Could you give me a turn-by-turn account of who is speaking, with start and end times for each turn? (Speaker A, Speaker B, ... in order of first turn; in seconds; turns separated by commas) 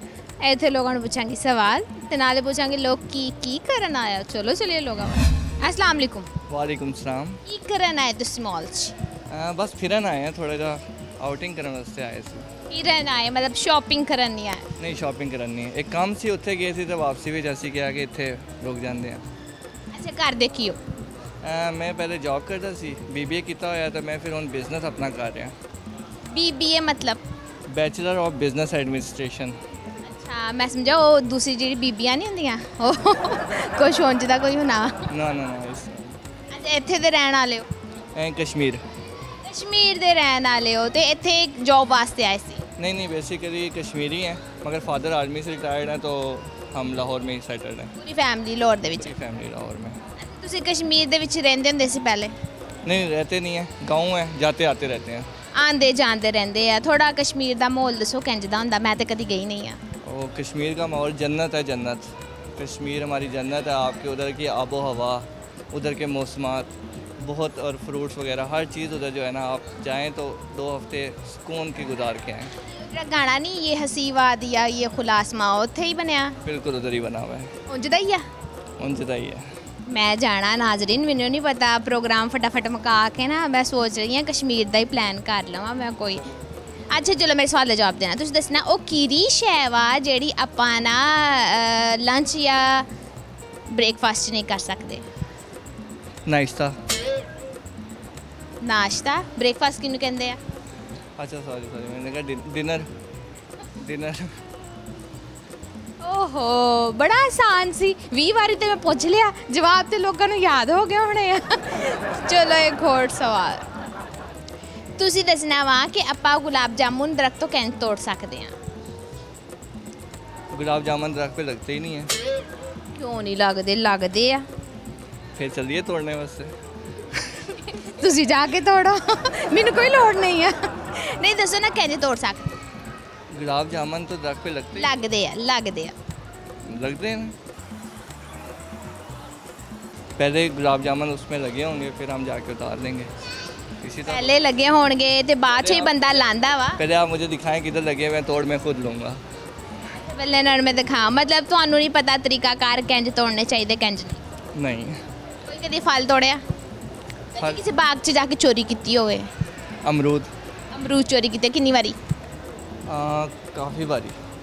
Speaker A: 0.4-6.3, Speaker B: 6.5-7.4, Speaker A: 7.5-8.9, Speaker B: 9.3-12.5, Speaker A: 12.7-14.7, Speaker B: 14.8-19.2, Speaker A: 19.9-20.8, Speaker B: 21.4-25.6, Speaker A: 26.3-27.2, Speaker B: 27.7-29.6, Speaker A: 30.1-35.0, Speaker B: 35.1-36.2, Speaker A: 36.5-37.7, Speaker B: 38.1-38.8, Speaker A: 39.4-42.6, Speaker B: 42.8-47.9, Speaker A: 48.0-49.1, Speaker B: 49.0-50.0, Speaker A: 50.2-52.3, Speaker B: 52.9-55.3, Speaker A: 55.5-59.8, Speaker B: 60.0-72.5, Speaker A: 72.8-76.4, Speaker B: 76.5-77.5, Speaker A: 77.7-78.3, Speaker B: 78.8-79.5, Speaker A: 79.9-86.3, Speaker A: 86.9-92.9, Speaker A: 93.7-95.0, Speaker B: 96.3-96.8, Speaker A: 98.6-100.4, Speaker B: 101.2-102.9, Speaker B: 103.8-104.3, Speaker A: 106.0-113.6, Speaker A: 115.0-118.5, Speaker B: 120.5-122.1, Speaker A: 123.0-124.5, Speaker B: 125.4-126.5, Speaker A: 127.8-132.6, Speaker B: 133.3-134.9, Speaker A: 134.8-135.9, Speaker B: 136.7-137.3, Speaker B: 140.2-143.1, Speaker B: 143.8-144.3, Speaker A: 144.1-146.8, Speaker B: 145.6-146.0, Speaker B: 146.8-149.2, Speaker A: 149.9-154.2, Speaker B: 154.6-155.0, Speaker A: 155.5-156.4, Speaker A: 157.3-159.3, Speaker B: 159.8-160.3, Speaker A: 160.7-162.0, Speaker B: 162.9-164.2